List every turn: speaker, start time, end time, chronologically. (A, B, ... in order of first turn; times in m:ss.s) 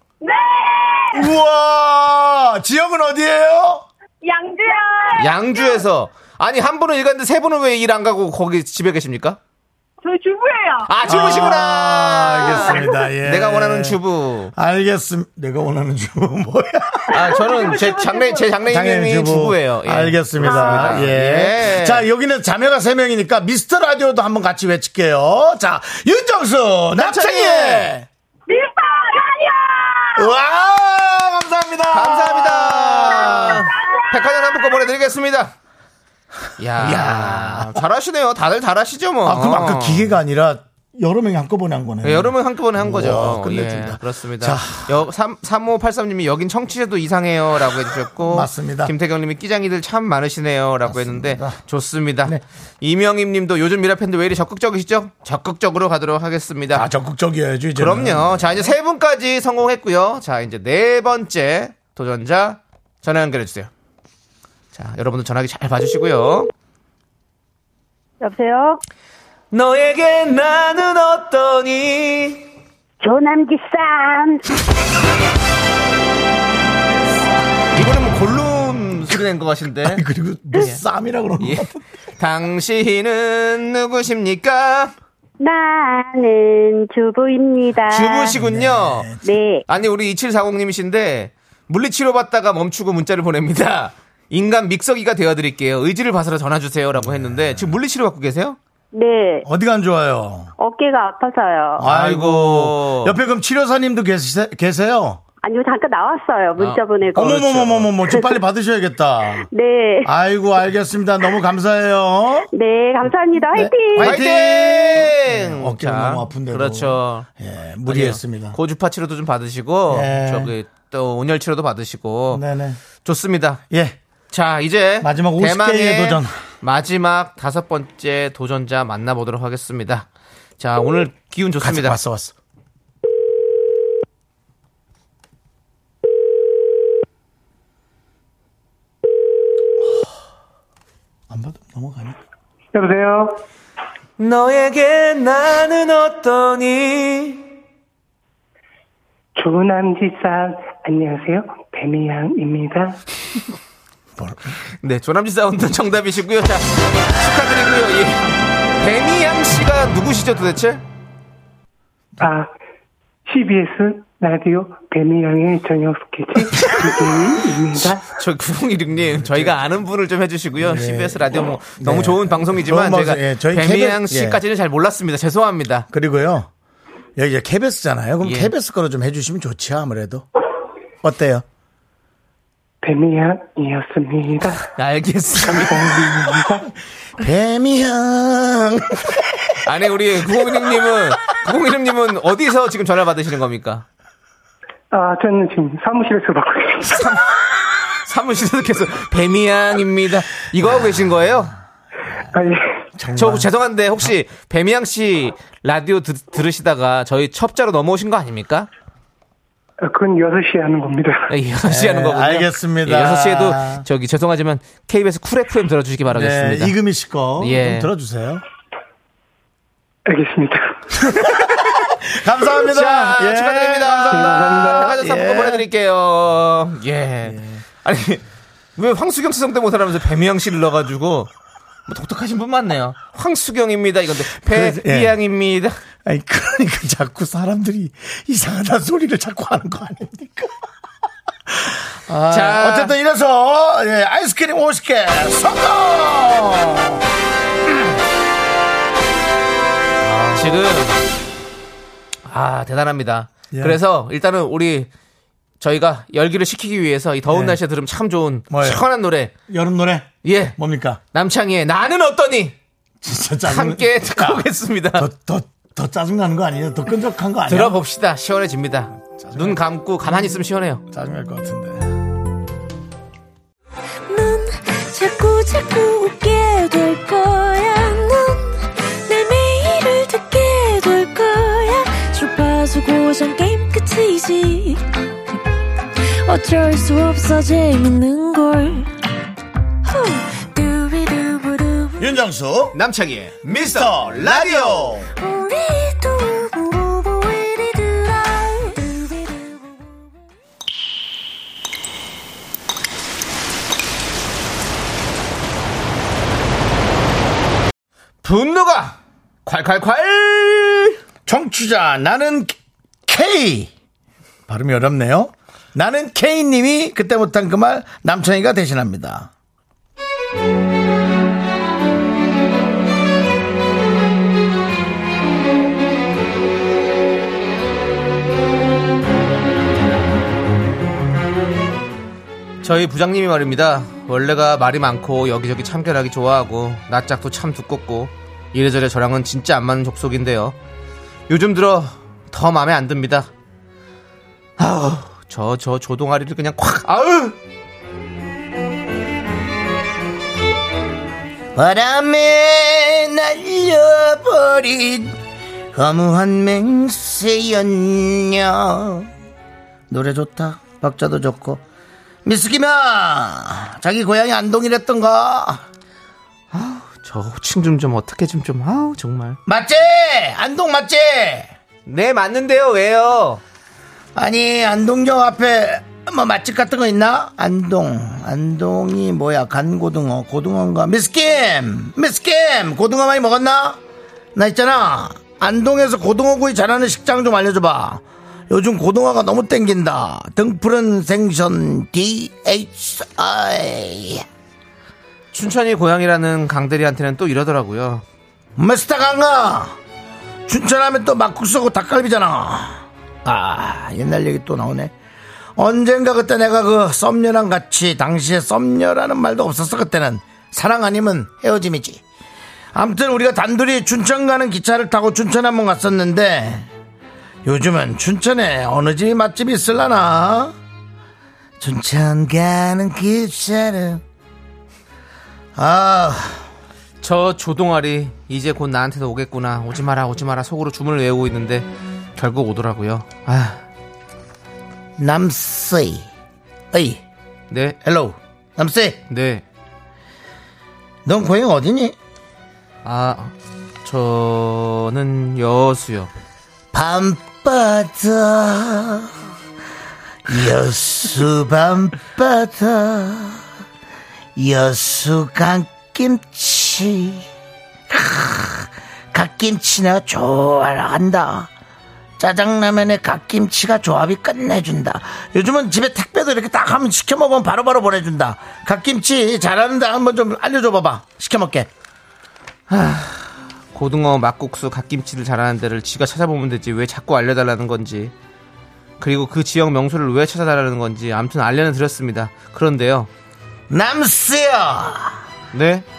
0:00.2-0:01.1 A
0:01.1-0:03.8 B
0:04.3-0:05.1 A
0:05.2-0:09.4 C
0:10.9-0:14.5 C
0:11.1-0:14.0 B
0:14.6-0:17.5 B
0:17.1-0:22.0 C
0:18.7-0:28.1 B
0:27.0-0:27.9 C
0:28.5-0:30.1 A
0:30.2-0:33.7 B
0:31.9-0:35.5 C
0:36.6-0:40.1 C
0:36.8-0:37.8 B
0:39.2-0:44.9 B
0:42.0-0:56.9 C
0:48.2-0:48.9 B
0:50.9-0:51.6 B
0:56.7-0:58.7 B
0:57.8-1:03.7 C
1:04.7-1:06.5 C
1:08.2-1:08.8 A
1:09.5-1:12.5 C
1:13.0-1:14.5 A
1:17.7-1:20.0 C
1:19.8-1:21.8 B
1:21.4-1:21.7 C
1:22.2-1:24.9 C
1:25.4-1:28.4 A
1:27.9-1:29.1 C
1:28.4-1:29.3 B
1:29.2-1:29.6 A
1:29.7-1:38.6 C
1:37.0-1:37.8 B
1:38.9-1:39.5 A
1:39.4-1:40.5 B
1:40.6-1:41.9 A
1:41.8-1:45.2 B
1:41.8-1:43.2 C
1:45.4-1:47.6 A
1:47.2-1:49.5 B
1:47.4-1:47.9 C
1:48.1-1:48.4 A
1:49.5-1:50.1 A
1:50.0-1:52.5 B
1:52.5-1:54.2 A
1:53.4-1:58.6 B
1:54.0-1:57.3 C
1:57.9-2:02.4 C
1:59.9-2:00.5 B
2:02.3-2:02.8 B
2:03.0-2:03.6 C
2:03.7-2:04.0 B
2:04.3-2:10.1 C
2:05.0-2:06.4 B
2:10.6-2:12.0 C
2:11.6-2:12.3 B
2:21.3-2:22.2 B
2:22.7-2:23.4 D
2:24.2-2:27.4 C
2:29.4-2:33.0 D
2:34.2-2:34.5 B
2:34.8-2:40.8 C
2:42.2-2:42.5 D
2:43.3-2:48.1 D
2:48.1-2:55.9 C
2:49.2-2:49.6 B
2:50.6-2:54.4 B
2:55.9-2:56.5 B
2:57.2-3:00.2 B
2:58.2-2:58.5 C
3:01.0-3:01.4 B
3:02.8-3:04.6 D
3:04.8-3:05.9 C
3:05.4-3:06.7 D
3:07.2-3:09.2 B
3:09.6-3:13.8 C
3:14.9-3:17.0 D
3:16.9-3:17.3 C
3:18.0-3:21.6 C
3:22.3-3:22.7 D
3:23.0-3:23.5 B
3:23.2-3:28.7 C
3:29.8-3:31.3 D
3:31.3-3:36.8 C
3:31.7-3:33.8 B
3:36.1-3:38.4 B
3:37.4-3:37.9 C
3:40.1-3:41.0 D
3:41.2-3:45.6 B
3:42.6-3:48.2 C
3:44.1-3:44.8 D
3:48.8-3:51.3 C
3:51.9-3:55.8 C
3:54.4-3:55.2 B
3:56.0-4:00.6 B
4:01.5-4:07.0 B
4:02.3-4:02.9 C
4:10.0-4:10.4 B
4:10.3-4:11.0 C
4:12.3-4:14.9 C
4:13.5-4:13.8 B
4:15.6-4:19.3 C
4:17.3-4:17.6 B
4:18.5-4:18.8 B
4:19.5-4:21.0 B
4:20.2-4:20.6 C
4:21.1-4:22.6 C
4:23.0-4:27.8 B
4:23.5-4:25.1 C
4:27.5-4:30.8 C
4:29.1-4:29.6 B
4:30.9-4:32.0 B
4:34.1-4:44.8 E
4:46.0-4:48.9 E
4:49.8-4:52.0 E
4:52.0-4:52.8 B
4:52.7-4:55.0 C
4:53.5-4:55.1 B
4:55.2-4:59.7 E
5:08.2-5:11.0 C
5:11.3-5:13.7 B
5:14.5-5:19.3 B
5:32.6-5:40.6 C
5:41.3-5:43.3 C
5:44.6-5:47.4 C
5:51.6-5:55.2 B
5:55.7-5:59.1 B
5:59.9-6:01.6 B
6:02.2-6:05.6 B
6:06.5-6:09.4 C
6:09.5-6:11.5 B
6:11.9-6:13.4 C
6:14.2-6:23.8 B
6:24.4-6:34.2 B
6:35.3-6:38.0 C
6:38.6-6:39.8 B
6:40.5-6:44.9 B
6:45.6-6:52.0 B
6:52.7-6:56.7 B
6:57.4-7:00.6 B
7:01.6-7:04.0 B
7:05.6-7:06.5 B
7:07.0-7:13.6 C
7:15.0-7:16.1 B
7:16.7-7:17.0 B
7:17.5-7:17.8 C
7:17.8-7:19.0 B
7:19.1-7:19.4 C
7:21.0-7:22.0 B
7:22.8-7:26.1 C
7:26.7-7:29.1 B
7:30.3-7:33.4 B
7:34.4-7:37.3 B
7:37.9-7:41.5 B
7:42.2-7:51.7 B
7:52.7-7:58.1 C
7:59.0-8:03.1 C
8:03.7-8:05.2 B
8:05.5-8:05.8 C